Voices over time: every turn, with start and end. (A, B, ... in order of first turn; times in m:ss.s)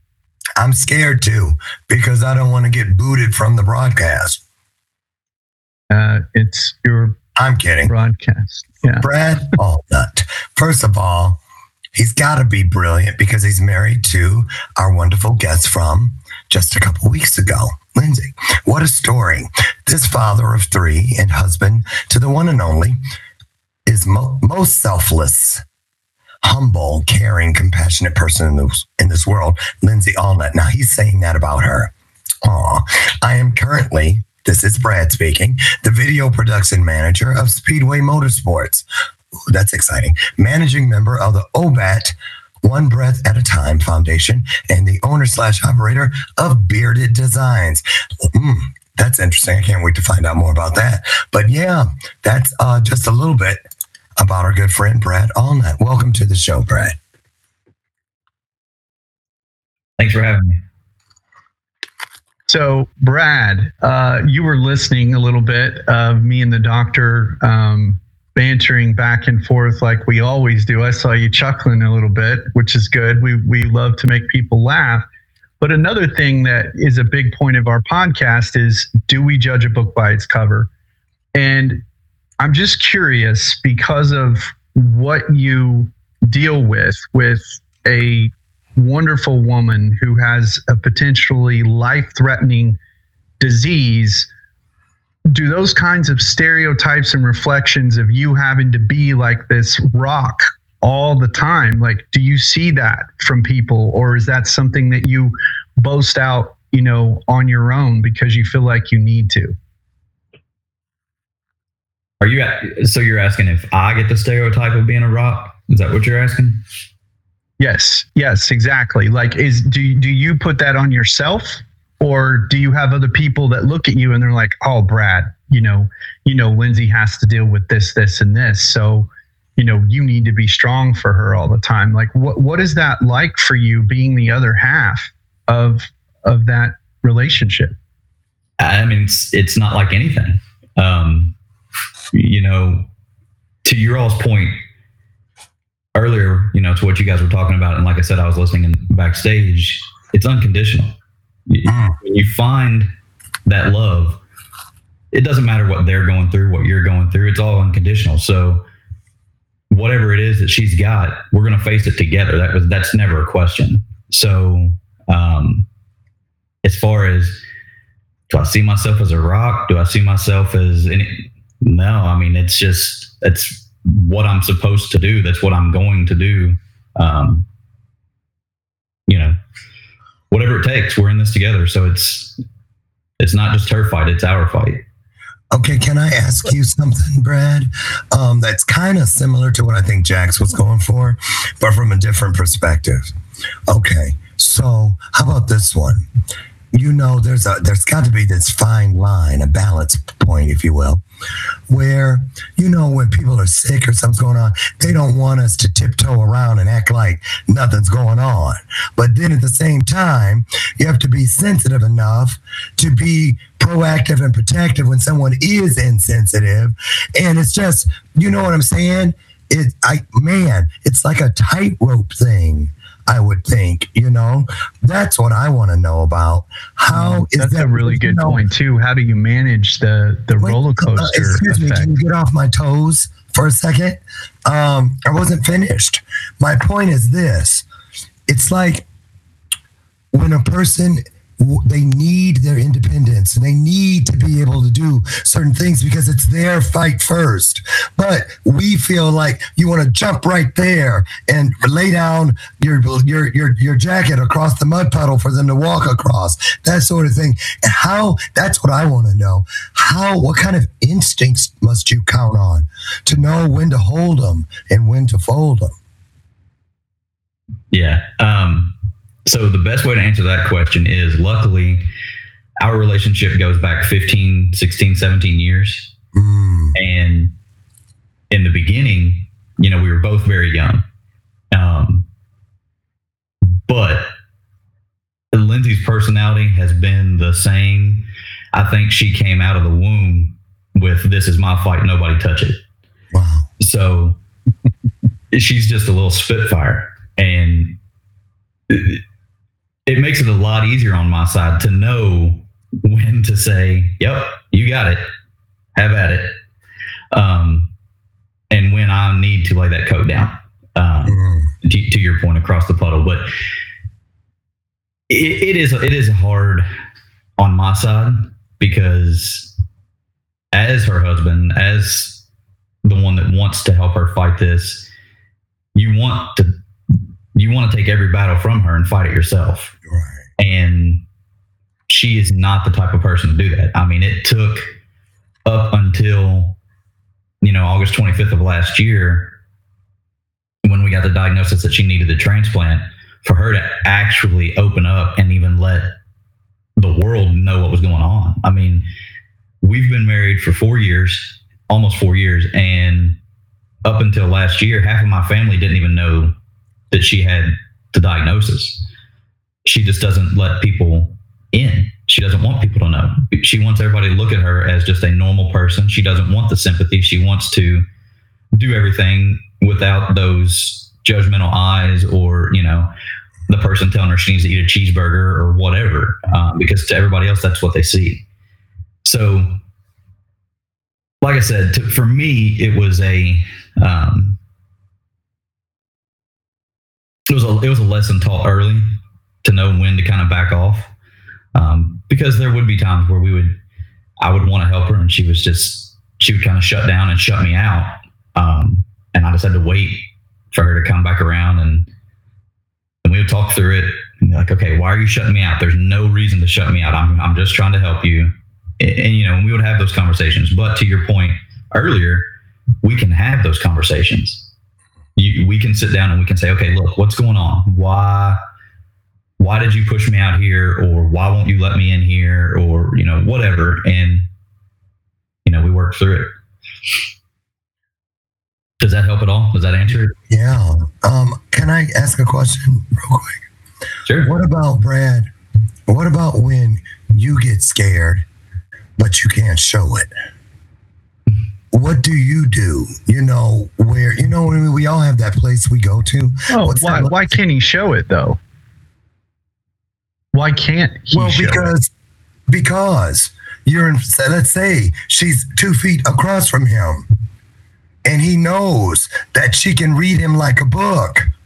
0:00.6-0:04.4 A
0:05.9-0:07.2 B
0:07.4-0:07.9 A
0:07.9-0:09.1 B
0:08.9-0:11.4 A
0:11.9-0:23.0 A
0:23.8-0:25.6 A
0:26.4-0:31.9 A
0:32.4-0:38.8 A
0:39.4-0:53.6 A
0:54.2-0:57.0 A
1:00.0-1:00.6 C
1:02.5-1:15.0 B
1:15.6-1:20.7 B
1:21.3-1:21.8 B
1:22.4-1:32.8 B
1:33.4-1:34.3 B
1:35.3-1:49.5 B
1:52.2-1:56.6 C
1:57.6-2:17.8 B
2:18.6-2:21.3 C
2:22.1-2:22.8 C
2:23.6-2:24.6 C
2:25.9-2:30.9 C
2:31.5-2:32.9 C
2:31.6-2:32.0 A
2:33.4-2:34.2 C
2:35.1-2:38.6 C
2:39.7-2:45.6 C
2:46.6-2:47.4 C
2:48.3-2:57.4 C
2:59.1-2:59.3 C
3:00.3-3:02.4 C
3:03.2-3:04.8 C
3:05.5-3:13.1 A
3:13.7-3:16.0 A
3:16.7-3:21.0 A
3:21.7-3:48.4 A
3:46.9-3:51.9 B
3:50.4-3:57.6 A
3:58.3-3:58.8 A
4:00.1-4:25.7 A
4:27.7-4:28.7 C
4:29.2-4:31.8 C
4:32.6-4:35.9 C
4:36.1-4:36.7 A
4:36.7-4:37.3 C
4:38.3-4:40.8 C
4:41.5-4:42.0 C
4:43.6-4:44.1 C
4:45.3-4:52.6 C
4:53.1-4:53.5 A
4:53.6-4:54.2 C
4:55.3-4:57.8 C
4:58.7-4:59.0 C
4:59.9-5:05.0 C
5:05.7-5:06.3 C
5:07.1-5:07.7 C
5:08.5-5:13.3 C
5:11.0-5:11.5 A
5:15.1-5:16.7 C
5:17.4-5:19.5 C
5:20.5-5:22.2 C
5:22.8-5:24.9 C
5:25.7-5:26.5 C
5:27.3-5:29.7 C
5:29.8-5:30.2 A
5:30.4-5:31.0 C
5:31.9-5:34.6 C
5:35.4-5:36.6 C
5:37.4-5:39.3 C
5:40.6-5:45.9 C
5:46.8-5:48.8 C
5:49.6-5:53.2 C
5:53.8-5:56.3 C
5:56.9-5:58.8 C
5:59.6-6:07.8 C
6:08.5-6:12.9 C
6:13.5-6:18.2 C
6:19.0-6:19.6 C
6:21.2-6:24.4 C
6:27.3-6:28.8 C
6:29.4-6:30.9 C
6:31.5-6:33.6 C
6:34.2-6:41.9 C
6:43.0-6:52.2 C
6:52.8-6:54.5 C
6:55.2-6:58.4 C
6:59.4-7:04.2 C
7:05.4-7:06.3 C
7:08.8-7:10.1 C
7:10.3-7:13.4 A
7:14.0-7:14.3 C
7:14.2-7:15.3 A
7:15.9-7:18.2 A
7:19.0-7:20.1 A
7:21.7-7:27.2 A
7:26.5-7:28.4 B
7:30.3-7:31.7 B
7:31.1-7:31.9 A
7:32.5-7:37.0 A
7:38.0-7:41.3 A